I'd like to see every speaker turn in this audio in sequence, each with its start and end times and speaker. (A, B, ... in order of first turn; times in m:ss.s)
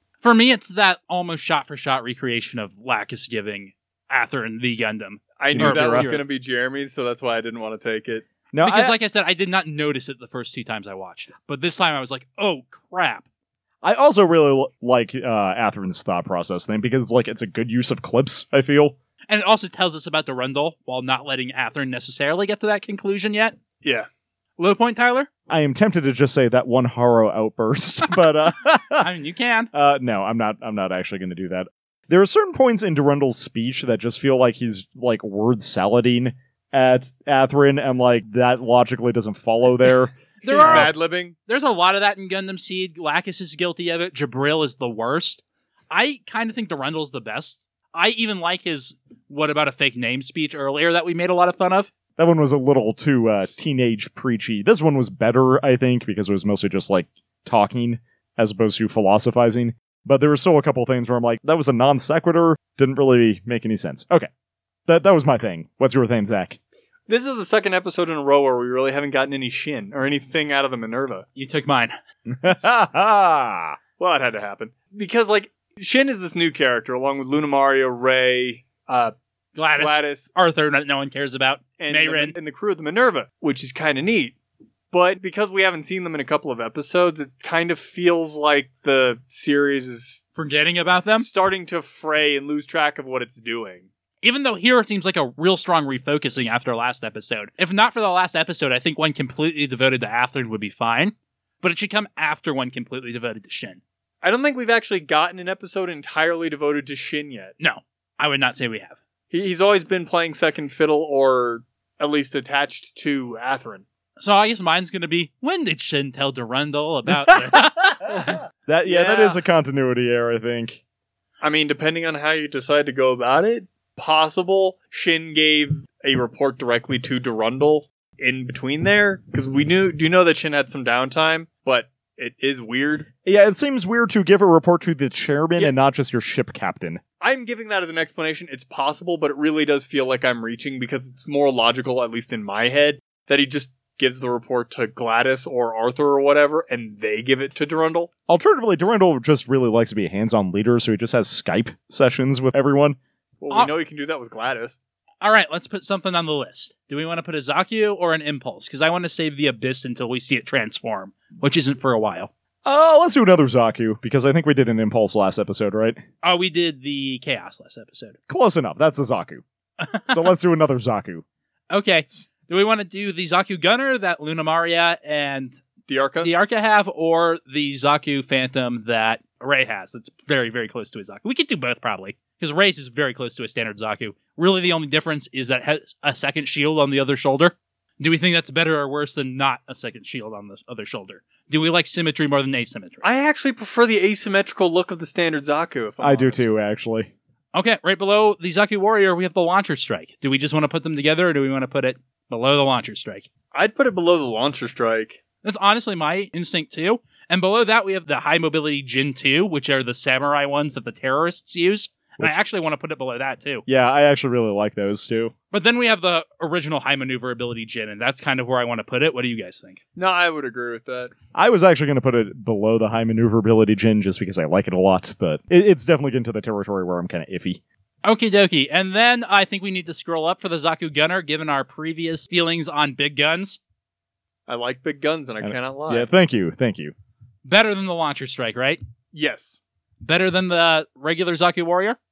0:00.2-0:06.2 A
0:05.4-0:08.3 B
0:05.5-0:06.1 C
0:08.5-0:09.0 C
0:08.6-0:13.2 A
0:13.8-0:19.0 C
0:19.3-0:23.6 A
0:24.6-0:25.3 A
0:25.5-0:29.1 C
0:29.0-0:29.7 A
0:29.7-0:40.9 C
0:40.4-0:51.9 A
0:40.6-0:41.3 B
0:52.2-1:04.3 C
1:04.9-1:06.6 C
1:07.1-1:11.2 B
1:11.4-1:12.0 A
1:12.3-1:13.8 C
1:14.0-1:19.1 B
1:19.6-1:22.4 A
1:19.8-1:20.3 B
1:21.8-1:24.3 B
1:24.9-1:30.2 B
1:30.4-1:31.3 A
1:31.2-1:33.9 B
1:34.2-1:43.8 A
1:44.2-1:47.5 B
1:47.6-1:49.0 A
1:49.3-1:53.8 B
1:54.2-1:57.8 A
1:58.0-2:00.8 C
1:58.9-1:59.4 B
2:01.4-2:13.1 B
2:13.2-2:17.0 C
2:17.2-2:28.1 B
2:28.3-2:33.0 C
2:33.4-2:34.8 B
2:35.2-2:42.3 A
2:42.6-2:46.0 C
2:46.2-2:48.2 A
2:48.3-2:49.4 C
2:49.8-2:50.1 A
2:50.1-2:51.2 C
2:51.7-2:55.6 A
2:55.8-2:56.3 B
2:56.2-3:13.0 A
3:13.0-3:16.5 B
3:16.0-3:17.1 C
3:17.5-3:23.3 A
3:23.5-3:25.2 B
3:25.4-3:33.6 A
3:33.7-3:35.3 C
3:35.5-3:39.8 A
3:40.0-3:41.1 B
3:41.3-3:47.6 C
3:48.0-3:53.6 A
3:54.5-3:56.1 B
3:55.4-3:56.9 C
3:57.4-3:58.8 A
3:59.1-3:59.6 B
4:00.0-4:02.0 A